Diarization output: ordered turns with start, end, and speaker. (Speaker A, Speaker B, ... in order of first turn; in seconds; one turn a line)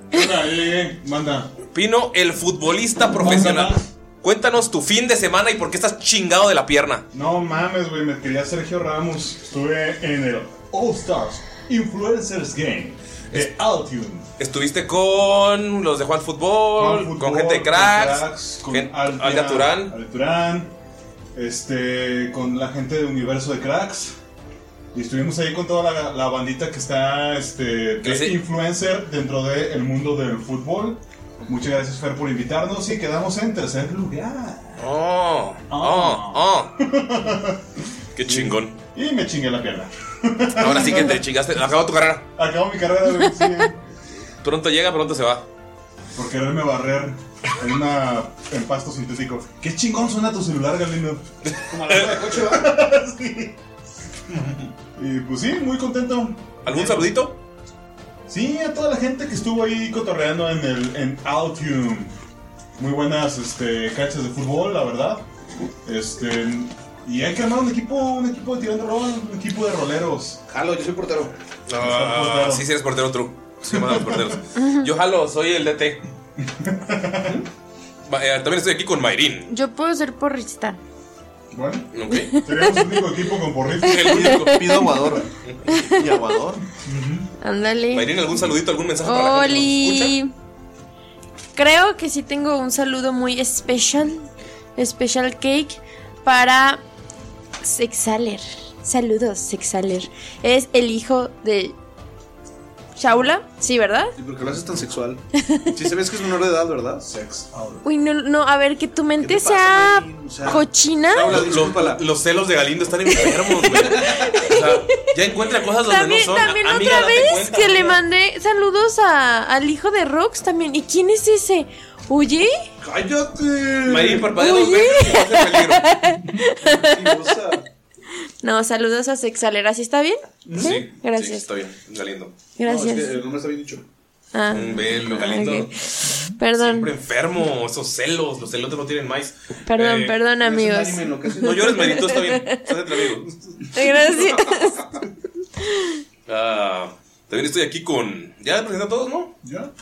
Speaker A: 0.1-1.5
Speaker B: 1.7-7.0
Speaker A: 3.2-3.8
Speaker A: 7.1-14.2
Speaker B: 14.4-19.9
Speaker A: 16.8-20.7
Speaker A: 21.3-24.1
Speaker A: 24.9-34.9
Speaker B: 28.0-28.4
Speaker B: 34.8-36.7
Speaker A: 35.7-37.6
Speaker B: 38.1-38.8
Speaker A: 38.2-41.2
Speaker B: 40.6-42.2
Speaker A: 42.4-43.8
Speaker B: 44.4-45.4
Speaker A: 46.1-51.2
Speaker B: 51.5-52.0
Speaker C: 51.7-52.7
Speaker A: 51.8-53.5
Speaker A: 55.0-57.2
Speaker B: 56.6-57.4
Speaker A: 58.3-62.1
Speaker A: 62.8-65.2
Speaker A: 65.8-70.4
Speaker C: 70.5-71.3
Speaker B: 71.7-76.0
Speaker A: 71.8-72.7
Speaker A: 73.7-74.4
Speaker A: 76.4-77.4
Speaker B: 78.0-79.5
Speaker D: 79.5-80.8
Speaker A: 81.5-81.9
Speaker B: 81.9-82.3
Speaker D: 82.2-83.1
Speaker A: 82.4-84.3
Speaker B: 83.8-84.6
Speaker E: 84.0-85.3
Speaker D: 84.0-85.1
Speaker D: 85.7-86.3
Speaker E: 85.8-86.6
Speaker A: 86.8-87.3
Speaker D: 87.4-88.1
Speaker B: 87.9-90.1
Speaker D: 89.0-90.3
Speaker D: 91.5-96.8
Speaker D: 97.6-101.8
Speaker D: 103.0-104.2
Speaker C: 104.2-107.0
Speaker A: 107.0-107.8
Speaker D: 107.8-111.3
Speaker C: 109.2-110.6
Speaker B: 111.1-117.8
Speaker C: 111.2-112.0
Speaker D: 113.2-115.1
Speaker C: 113.7-114.5
Speaker D: 115.8-122.5
Speaker C: 122.8-124.3
Speaker B: 123.8-125.9
Speaker D: 124.3-127.5
Speaker C: 126.6-127.6
Speaker D: 128.4-131.4
Speaker C: 130.5-130.8
Speaker B: 130.6-132.3
Speaker D: 132.6-133.2
Speaker C: 132.6-133.8
Speaker D: 134.3-136.9
Speaker B: 134.5-135.7
Speaker B: 136.6-140.2
Speaker D: 139.7-142.6
Speaker C: 140.4-141.9
Speaker B: 141.4-143.3
Speaker D: 143.7-144.9
Speaker D: 145.6-146.0
Speaker B: 146.3-149.3
Speaker A: 149.4-149.7